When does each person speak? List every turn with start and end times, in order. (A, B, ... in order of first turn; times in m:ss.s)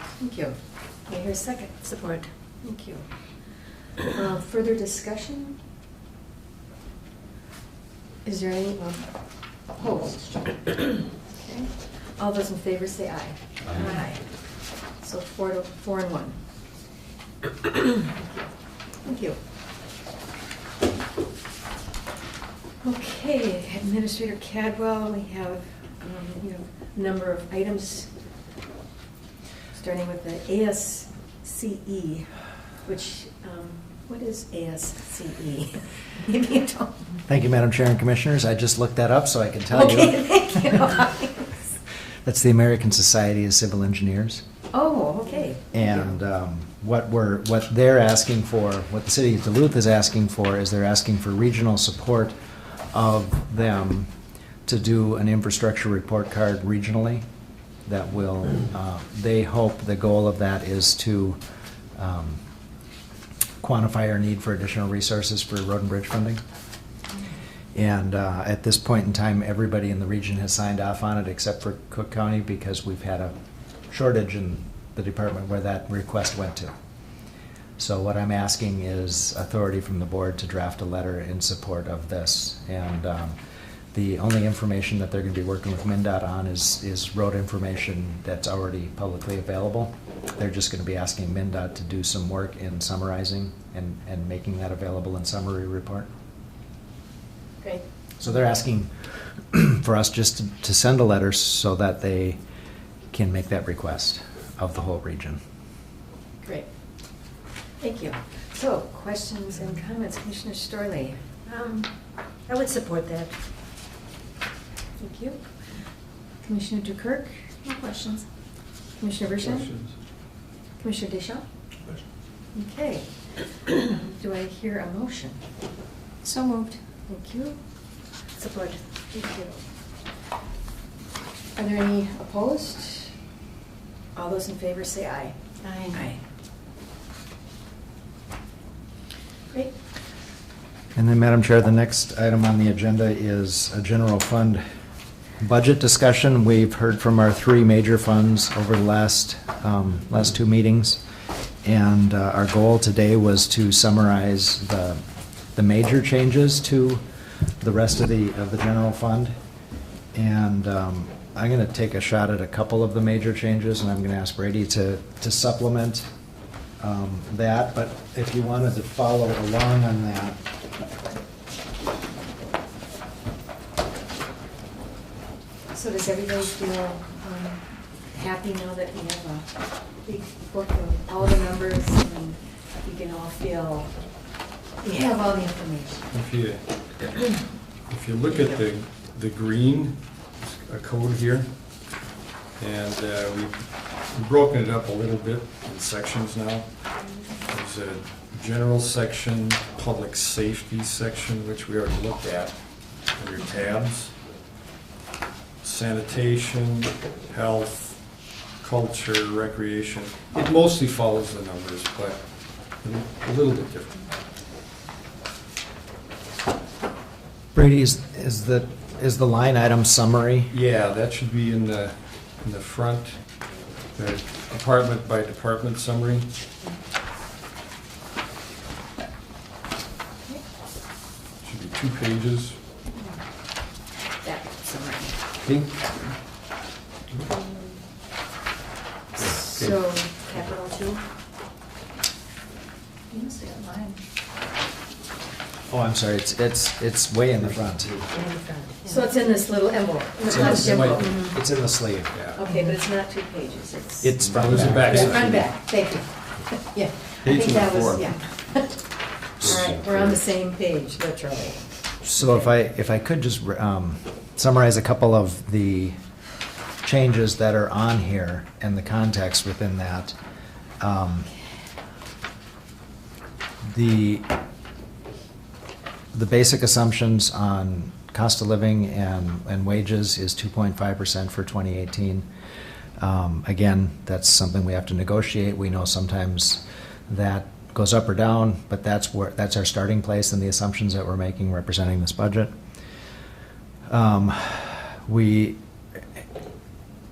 0:00.2-0:00.6 A
0:01.1-0:01.8 A
0:01.8-0:02.3 B
0:02.6-0:05.6 A
0:08.2-0:09.1 A
0:09.7-0:14.2 A
0:15.0-0:16.4 A
0:17.7-0:18.5 A
0:19.0-0:19.4 A
0:22.8-0:28.1 A
0:29.7-0:32.3 A
0:32.8-0:37.0 A
0:37.3-0:40.2 C
0:39.7-0:41.7 A
0:42.2-0:44.4 C
0:44.7-0:45.6 A
0:45.7-0:52.4 C
0:52.9-0:54.1 C
0:54.7-0:57.2 C
0:57.9-1:01.4 C
1:02.0-1:02.4 C
1:03.6-1:06.4 C
1:07.7-1:13.3 C
1:13.9-1:16.7 C
1:17.8-1:23.4 C
1:23.9-1:36.1 C
1:38.2-1:42.4 C
1:43.1-1:45.4 C
1:47.8-1:51.9 A
1:52.5-1:53.3 B
1:55.0-1:55.4 A
1:56.4-1:58.2 A
1:59.0-1:59.7 A
1:59.4-1:59.9 D
2:00.8-2:01.4 A
2:02.5-2:03.1 A
2:03.7-2:05.4 A
2:06.2-2:06.8 B
2:07.1-2:07.6 A
2:08.4-2:09.6 A
2:11.6-2:13.1 A
2:14.2-2:16.2 A
2:15.6-2:16.1 B
2:20.9-2:24.6 C
2:25.4-2:31.0 C
2:31.6-2:35.0 C
2:35.6-2:37.0 C
2:37.6-2:39.3 C
2:40.1-2:46.1 C
2:46.8-2:50.4 C
2:55.7-2:59.5 A
3:00.0-3:03.9 A
3:04.8-3:06.0 A
3:06.1-3:06.6 D
3:07.9-3:11.6 D
3:08.3-3:08.6 A
3:12.6-3:16.7 D
3:17.5-3:24.1 D
3:25.6-3:28.0 D
3:28.6-3:32.2 D
3:32.8-3:34.1 D
3:37.5-3:40.5 C
3:40.5-3:43.2 D
3:43.9-3:46.3 D
3:51.4-3:52.6 D
3:54.2-3:55.2 A
3:55.4-3:56.1 D
3:57.3-3:57.8 A
3:59.2-4:01.0 A
3:59.2-3:59.8 D
4:03.1-4:04.0 B
4:05.7-4:08.0 C
4:08.1-4:09.0 B
4:08.8-4:11.4 A
4:10.3-4:11.1 D
4:10.4-4:12.1 C
4:10.8-4:11.1 B
4:12.1-4:12.4 D
4:12.4-4:14.2 A
4:14.0-4:15.3 C
4:14.3-4:15.5 D
4:14.8-4:18.8 A
4:17.2-4:18.1 D
4:19.4-4:20.1 D
4:19.4-4:22.4 A
4:19.4-4:19.8 C
4:22.0-4:26.0 C
4:26.8-4:30.2 C
4:30.8-4:31.3 C
4:33.6-4:34.3 C
4:36.1-4:42.3 C
4:43.0-4:52.5 C
4:53.9-4:55.6 C